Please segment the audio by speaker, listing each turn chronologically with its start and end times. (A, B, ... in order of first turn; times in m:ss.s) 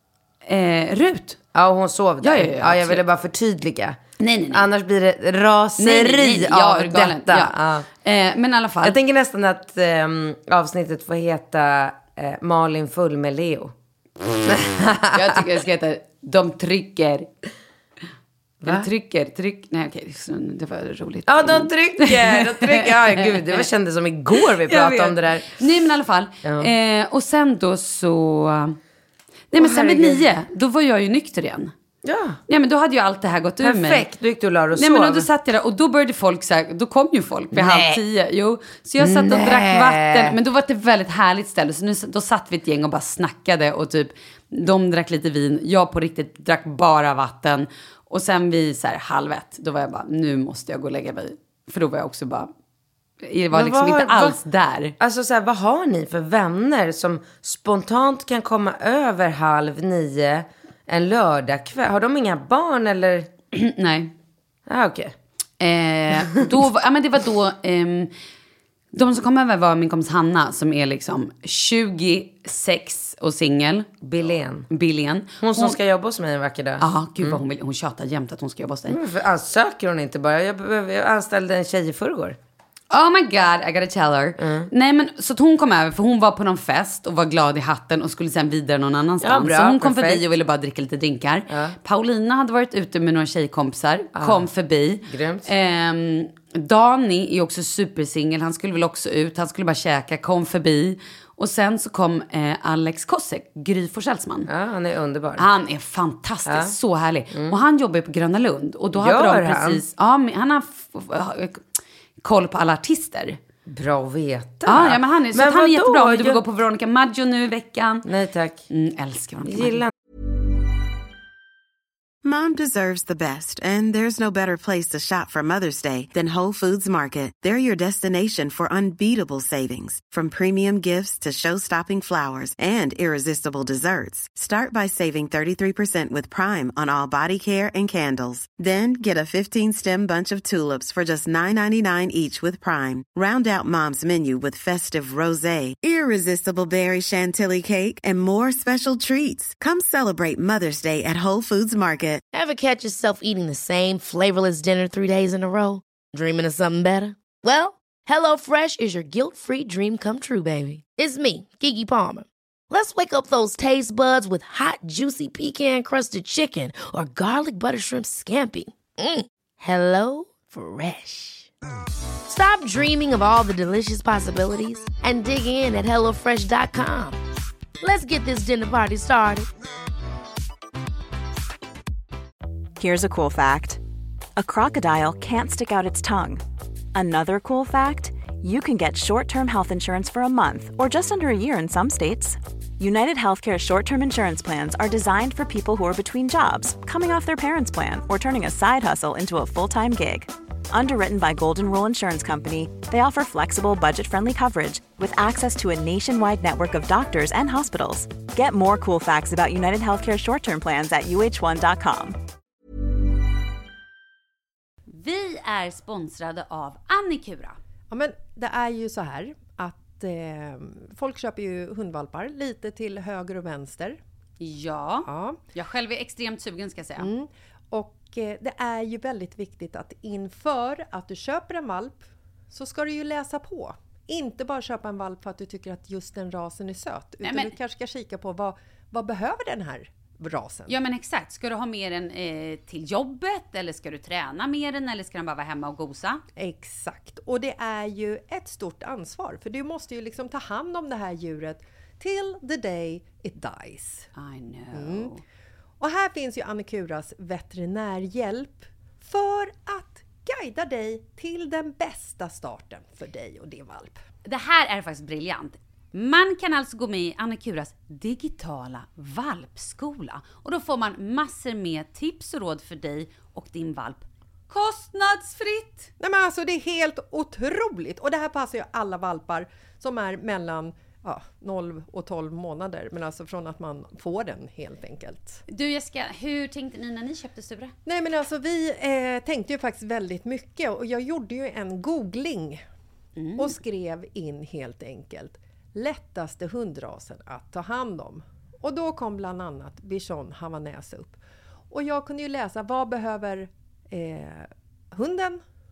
0:00.4-0:01.4 A
0:01.5-0:04.0 B
0:02.2-0:03.0 A
0:04.2-0:04.6 A
0:04.5-0:07.8 B
0:05.8-0:09.0 A
0:08.8-0:13.7 B
0:14.4-0:15.4 B
0:15.1-0:17.3 A
0:18.6-0:18.9 B
0:18.6-0:23.7 A
0:21.3-0:25.5 B
0:24.6-0:28.8 A
0:26.4-0:26.7 B
0:29.5-0:31.7 A
0:29.6-0:30.2 B
0:32.0-0:32.4 B
0:32.5-0:34.0 A
0:33.6-0:35.3 B
0:34.7-0:52.5 A
0:37.5-0:38.0 B
0:39.0-0:40.4 B
0:53.2-0:54.9 A
0:53.5-0:54.4 B
0:55.0-1:03.3 B
1:03.5-1:04.1 A
1:04.7-1:05.1 B
1:05.6-1:08.1 A
1:08.9-1:13.9 A
1:14.0-1:14.7 B
1:14.7-1:15.8 A
1:15.4-1:17.4 B
1:16.8-1:19.0 A
1:18.9-1:22.4 B
1:22.9-1:44.5 A
1:24.4-1:24.7 B
1:29.2-1:30.2 B
1:31.5-1:31.8 B
1:34.2-1:34.5 B
1:35.1-1:35.4 B
1:44.5-1:45.5 B
1:45.4-1:51.6 A
1:46.4-1:46.7 B
1:49.0-1:49.8 B
1:52.2-1:53.4 A
1:53.7-1:56.4 B
1:54.6-1:58.0 A
1:58.0-1:58.6 B
1:58.7-1:59.8 A
1:59.4-1:59.9 B
2:02.2-2:32.2 C
2:32.3-2:51.5 D
2:52.3-2:57.2 D
2:57.8-2:59.5 D
3:02.8-3:03.8 E
3:04.4-3:06.4 E
3:06.9-3:32.2 E
3:34.9-3:37.6 A
3:37.9-3:44.0 F
3:44.4-3:47.1 A
3:45.1-3:45.4 F
3:47.0-4:00.7 F
3:57.2-3:57.5 A
4:00.7-4:06.2 A
4:06.4-4:14.1 F
4:14.2-4:15.2 A
4:14.7-4:15.1 F
4:15.8-4:24.0 F
4:24.2-4:35.9 A
4:36.0-4:45.4 F
4:45.5-4:47.7 A
4:47.8-4:52.6 F
4:53.2-4:53.6 A
4:53.4-5:01.2 F
5:01.7-5:05.4 F